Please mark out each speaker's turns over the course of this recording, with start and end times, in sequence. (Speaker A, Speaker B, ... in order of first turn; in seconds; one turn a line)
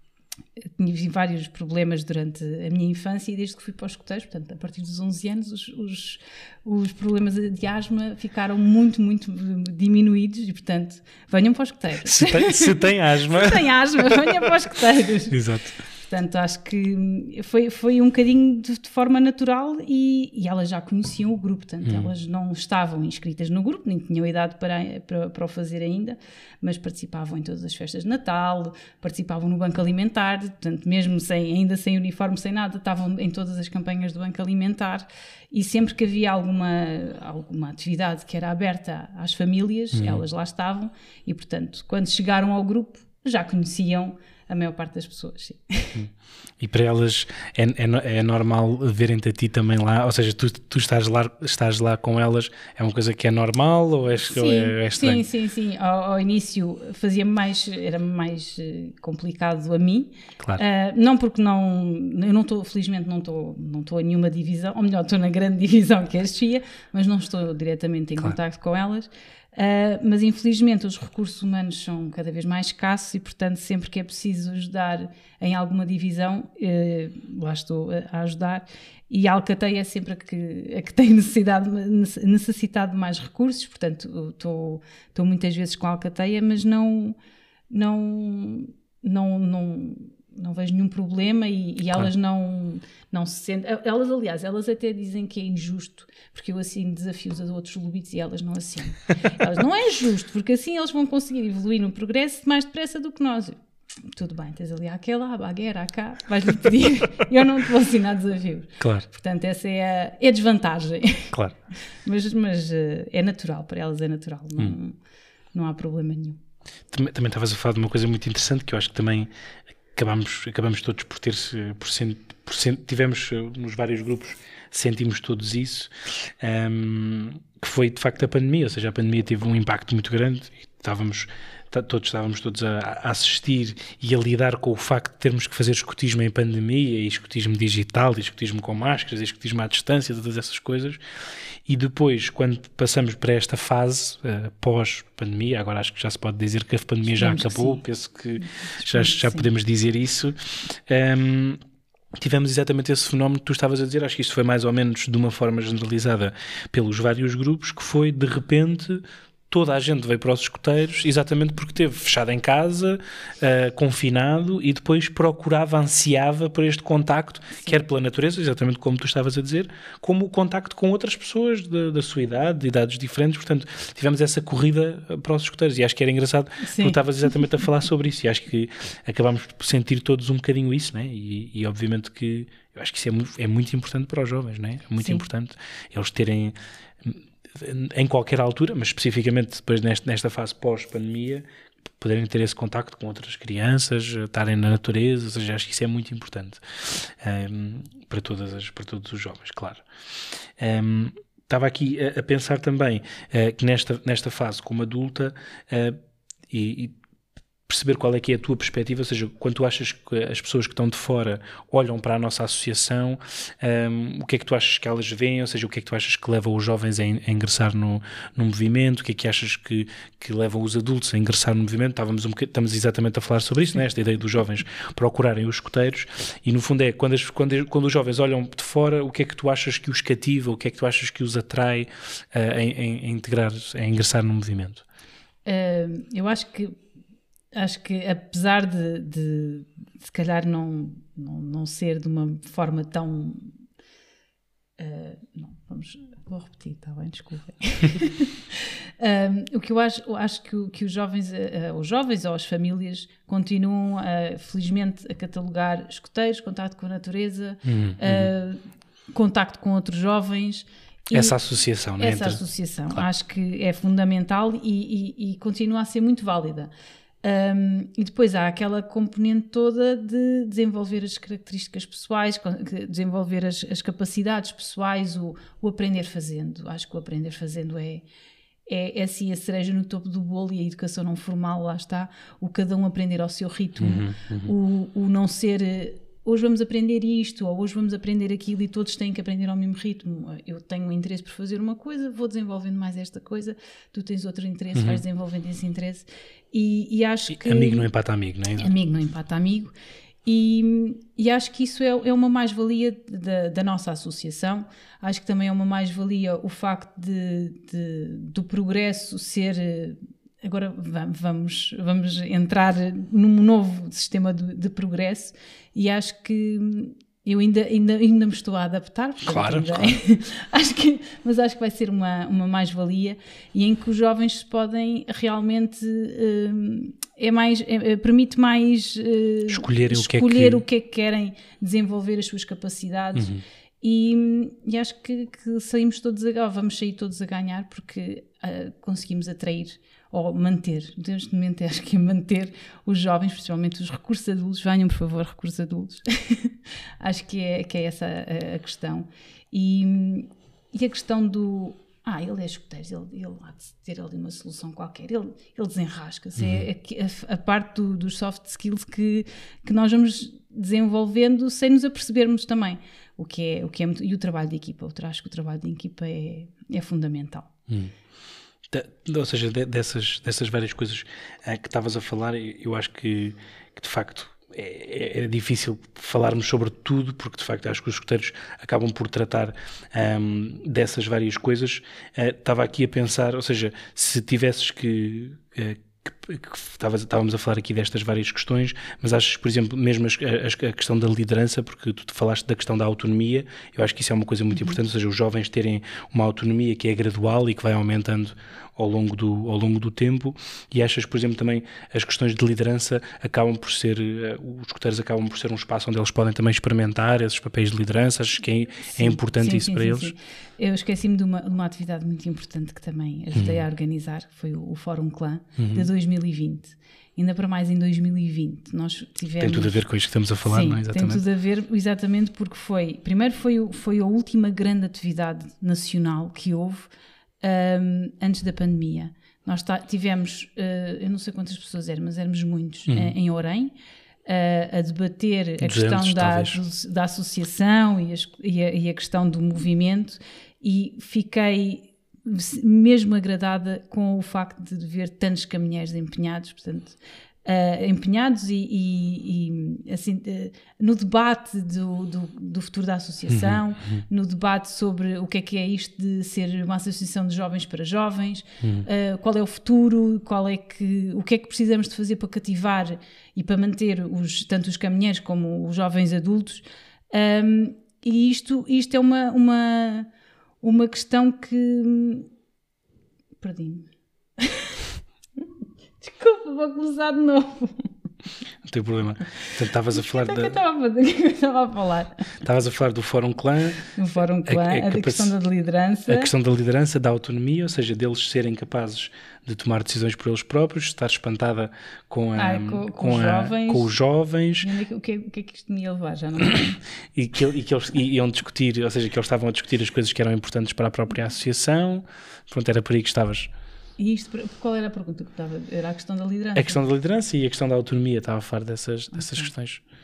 Speaker A: 0.8-15.4
Speaker B: 12.0-13.6
Speaker B: 15.3-15.7
Speaker A: 16.0-46.0
Speaker B: 21.8-22.1
Speaker B: 39.9-40.2
Speaker B: 45.9-55.2
Speaker A: 54.3-87.2
Speaker A: 87.7-103.6
Speaker A: 104.1-111.3
Speaker B: 108.8-109.1
Speaker A: 112.0-115.0
Speaker A: 115.5-116.4
Speaker B: 116.9-119.3
Speaker B: 119.9-141.0
Speaker B: 141.7-151.6
Speaker A: 147.2-147.8
Speaker A: 148.4-149.5
Speaker B: 152.2-191.4
Speaker A: 176.6-177.0
Speaker A: 185.0-185.2
Speaker B: 192.0-199.8
Speaker B: 200.6-206.0
Speaker B: 206.5-206.9
Speaker B: 207.7-234.8
Speaker A: 235.4-236.8
Speaker A: 237.5-243.5
Speaker A: 244.8-261.4
Speaker B: 257.6-258.3
Speaker B: 261.1-263.1
Speaker A: 262.0-266.7
Speaker A: 267.2-278.0
Speaker A: 278.6-297.9
Speaker B: 283.8-284.5
Speaker B: 294.7-295.0
Speaker B: 297.3-298.7
Speaker A: 298.6-299.7
Speaker A: 300.2-367.5
Speaker B: 319.2-320.0
Speaker B: 329.5-330.6
Speaker B: 333.1-333.4
Speaker B: 356.4-356.6
Speaker B: 368.7-410.1
Speaker A: 408.9-419.8
Speaker B: 413.3-413.6
Speaker B: 415.6-415.9
Speaker B: 419.4-421.2
Speaker A: 420.4-433.7
Speaker B: 432.9-433.1
Speaker A: 434.2-470.1
Speaker B: 435.6-436.6
Speaker B: 453.3-454.0
Speaker B: 458.6-458.9
Speaker A: 470.6-472.3
Speaker A: 473.4-474.9
Speaker A: 476.0-477.9
Speaker B: 478.6-480.6
Speaker A: 479.9-482.2
Speaker B: 482.4-483.9
Speaker A: 483.9-486.3
Speaker B: 484.4-485.3
Speaker B: 486.1-494.7
Speaker A: 492.4-493.9
Speaker A: 494.6-496.8
Speaker B: 497.1-503.5
Speaker A: 504.0-506.8
Speaker B: 506.6-509.8
Speaker A: 509.1-509.5